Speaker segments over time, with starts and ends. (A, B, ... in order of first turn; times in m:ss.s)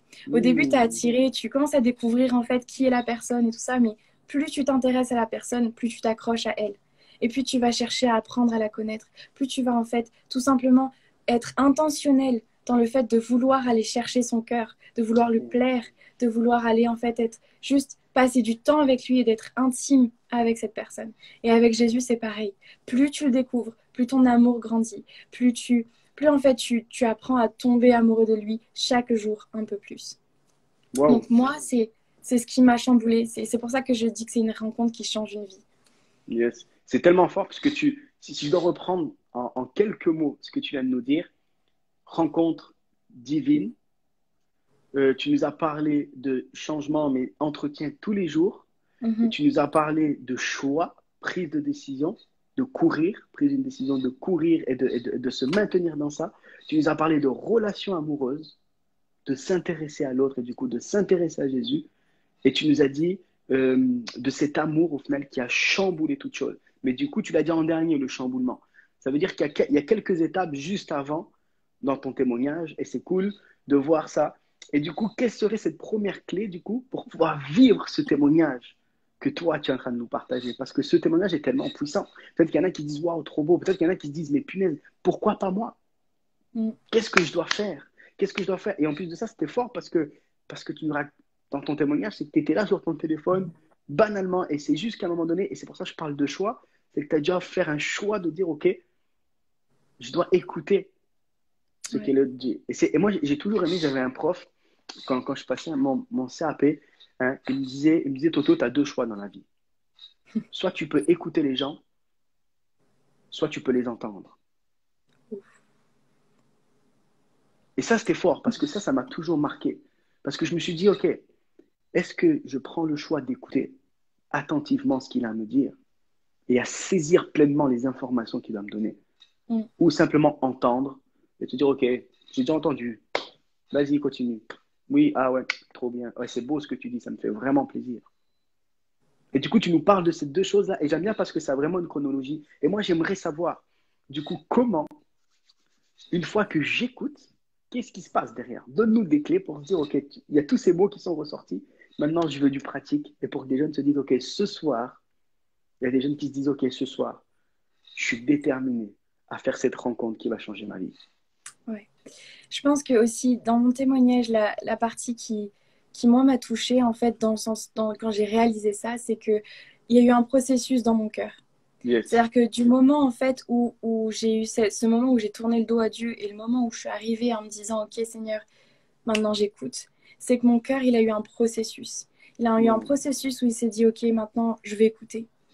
0:00.3-0:01.1 A
0:00.3-0:30.2 B
0:30.9-0:31.3 A
0:31.1-0:35.6 B
0:36.3-0:41.3 A
0:42.0-0:43.7 A
0:44.9-0:48.6 A
0:49.0-0:49.3 B
0:49.2-0:58.6 A
0:59.2-1:01.8 A
1:02.4-1:25.8 A
1:26.9-1:38.8 A
1:40.0-1:40.9 A
1:41.9-1:44.5 A
1:45.1-1:49.4 A
1:50.5-1:51.8 A
1:53.3-1:54.4 A
1:57.8-2:01.2 A
2:01.9-2:03.7 A
2:04.3-2:05.8 A
2:06.5-2:09.0 A
2:09.8-2:13.0 A
2:13.7-2:18.1 A
2:19.3-2:24.9 A
2:26.1-2:35.0 A
2:35.8-2:37.2 A
2:37.9-2:41.0 A
2:42.5-2:51.4 B
2:51.8-2:52.2 A
2:52.1-2:58.4 B
2:59.0-3:05.3 B
3:02.6-3:02.9 A